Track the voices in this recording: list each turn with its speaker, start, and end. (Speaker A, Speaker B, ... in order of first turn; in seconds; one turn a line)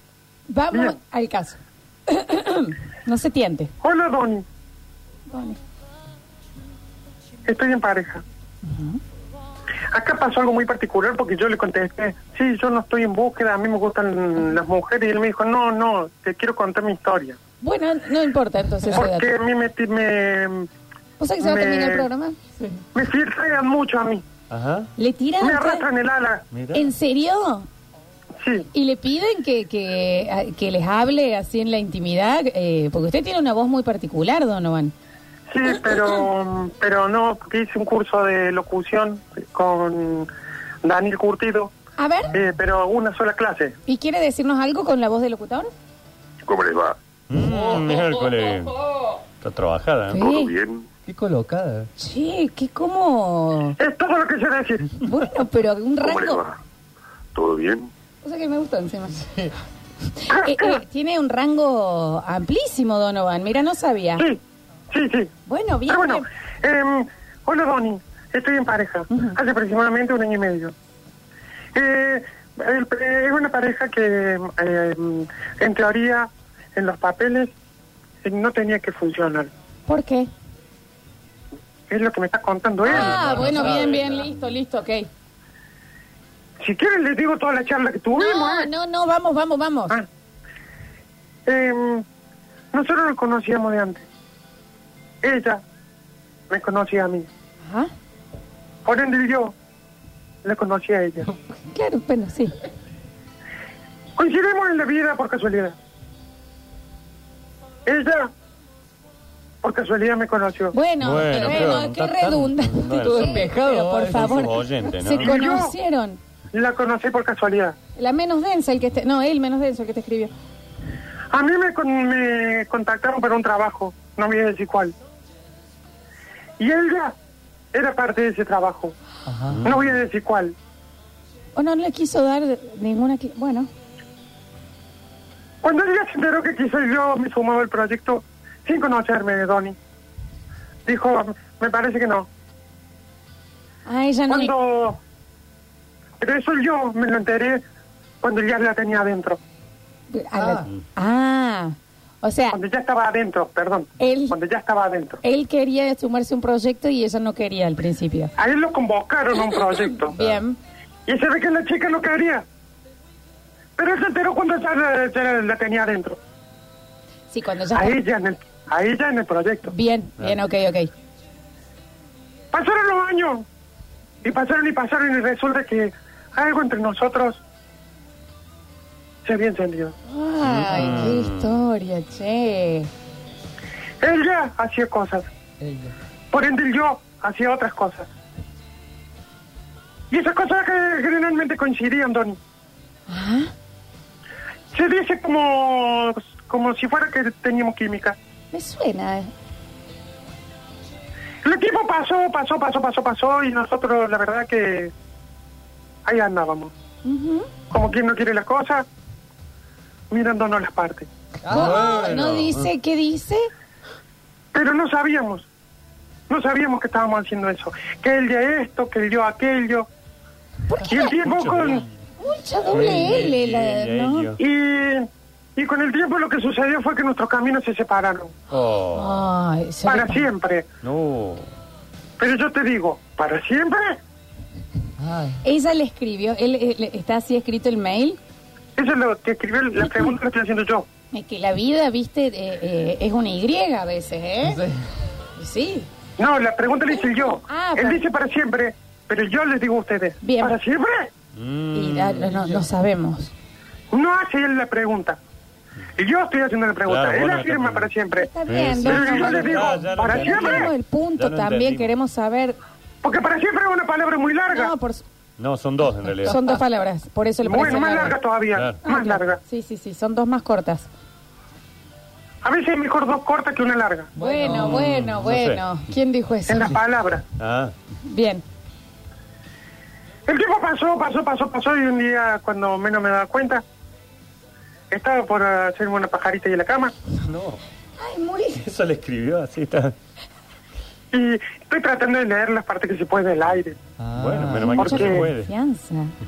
Speaker A: 0.5-3.7
Speaker B: 3.8-4.5
Speaker A: 5.3-5.6
Speaker B: 7.5-8.2
Speaker A: 8.6-9.0
Speaker B: 9.9-17.4
Speaker A: 17.6-19.3
Speaker B: 18.9-20.7
Speaker A: 21.2-22.4
Speaker B: 21.4-22.1
Speaker B: 22.9-24.2
Speaker C: 24.5-24.9
Speaker A: 25.0-25.8
Speaker B: 25.4-26.4
Speaker C: 26.5-26.9
Speaker A: 26.7-27.7
Speaker B: 28.4-28.7
Speaker A: 28.7-34.9
Speaker B: 35.5-40.3
Speaker B: 40.8-41.7
Speaker A: 42.0-42.3
Speaker B: 42.3-43.8
Speaker A: 43.9-45.7
Speaker D: 46.5-47.0
Speaker C: 47.3-48.8
Speaker E: 47.6-48.0
Speaker C: 49.4-50.2
Speaker A: 50.1-50.5
Speaker D: 50.1-50.8
Speaker E: 51.0-51.9
Speaker A: 52.0-53.8
Speaker B: 53.8-54.9
Speaker A: 55.0-56.4
Speaker D: 56.0-56.5
Speaker D: 57.3-57.9
Speaker A: 58.2-59.3
Speaker A: 60.2-64.3
Speaker B: 60.3-60.8
Speaker B: 64.9-65.3
Speaker A: 65.5-66.2
Speaker B: 65.9-70.7
Speaker A: 69.1-69.3
Speaker B: 71.7-77.5
Speaker B: 78.2-79.5
Speaker A: 79.9-80.3
Speaker B: 81.9-83.3
Speaker A: 82.8-85.1
Speaker C: 82.8-84.3
Speaker B: 86.6-88.7
Speaker A: 88.2-90.0
Speaker B: 91.5-92.0
Speaker B: 92.7-94.0
Speaker B: 95.2-95.6
Speaker B: 96.5-97.3
Speaker A: 97.6-97.9
Speaker B: 98.8-99.5
Speaker B: 100.4-101.3
Speaker A: 101.7-102.5
Speaker B: 104.2-105.8
Speaker B: 107.8-108.3
Speaker B: 109.6-110.7
Speaker A: 110.7-116.2
Speaker C: 111.0-113.5
Speaker E: 112.9-114.5
Speaker C: 114.1-115.4
Speaker B: 115.2-115.7
Speaker B: 116.5-117.8
Speaker A: 118.0-120.3
Speaker B: 121.3-124.9
Speaker B: 126.6-127.1
Speaker B: 127.7-128.9
Speaker E: 129.2-129.7
Speaker C: 129.5-129.9
Speaker B: 129.6-130.5
Speaker A: 131.6-133.7
Speaker B: 135.6-139.8
Speaker B: 140.8-142.3
Speaker A: 143.8-144.5
Speaker B: 144.3-145.0
Speaker B: 146.2-147.6
Speaker B: 148.2-149.4
Speaker A: 150.1-152.6
Speaker E: 150.4-150.7
Speaker B: 152.5-155.2
Speaker A: 154.0-154.4
Speaker A: 155.2-158.3
Speaker B: 158.4-160.1
Speaker A: 160.1-160.6
Speaker C: 160.1-160.4
Speaker B: 161.1-162.4
Speaker B: 163.8-166.2
Speaker A: 167.3-168.0
Speaker B: 167.7-169.7
Speaker A: 169.7-170.9
Speaker B: 172.5-173.4
Speaker B: 174.2-177.4
Speaker B: 179.2-179.9
Speaker A: 180.1-182.9
Speaker C: 180.4-181.6
Speaker B: 184.0-185.2
Speaker E: 185.6-185.9
Speaker B: 186.3-188.1
Speaker B: 190.1-192.4
Speaker A: 193.1-193.5
Speaker B: 194.7-198.2
Speaker A: 198.5-199.3
Speaker B: 201.4-204.9
Speaker B: 206.0-206.7
Speaker A: 207.0-207.5
Speaker B: 207.7-208.8
Speaker B: 210.1-211.1
Speaker E: 211.4-211.9
Speaker A: 211.4-213.5
Speaker C: 211.5-212.7
Speaker B: 214.5-215.5
Speaker B: 216.3-219.9
Speaker A: 220.7-221.2
Speaker B: 220.8-221.8
Speaker C: 221.2-221.8
Speaker A: 222.2-224.3
Speaker C: 222.7-224.4
Speaker B: 224.4-228.3
Speaker C: 228.5-229.2
Speaker A: 228.9-230.2
Speaker B: 229.8-230.7
Speaker C: 230.8-231.5
Speaker B: 232.2-234.0
Speaker E: 235.0-235.4
Speaker A: 235.4-238.2
Speaker B: 238.8-240.9
Speaker A: 241.1-244.6
Speaker E: 244.4-244.8
Speaker A: 245.4-245.9
Speaker B: 246.2-251.1
Speaker A: 246.9-248.0
Speaker A: 250.2-250.6
Speaker C: 251.3-252.4
Speaker A: 251.7-253.3
Speaker B: 253.9-255.2
Speaker B: 255.9-258.3
Speaker C: 256.8-257.9
Speaker A: 258.1-262.6
Speaker C: 258.5-261.9
Speaker B: 258.8-260.7
Speaker B: 263.0-264.7
Speaker A: 264.5-265.0
Speaker C: 265.4-266.4
Speaker A: 266.2-268.2
Speaker B: 267.4-269.4
Speaker C: 267.6-268.0
Speaker A: 268.8-270.9
Speaker B: 272.4-274.1
Speaker E: 274.1-275.0
Speaker A: 274.1-276.8
Speaker C: 274.5-275.6
Speaker B: 276.5-277.2
Speaker C: 277.4-277.7
Speaker A: 278.0-278.4
Speaker B: 280.2-283.6
Speaker B: 284.9-286.9
Speaker C: 287.2-287.6
Speaker A: 288.0-288.6
Speaker C: 288.6-289.9
Speaker B: 291.1-293.8
Speaker E: 294.0-295.3
Speaker C: 294.1-295.5
Speaker A: 294.6-296.1
Speaker B: 294.9-295.2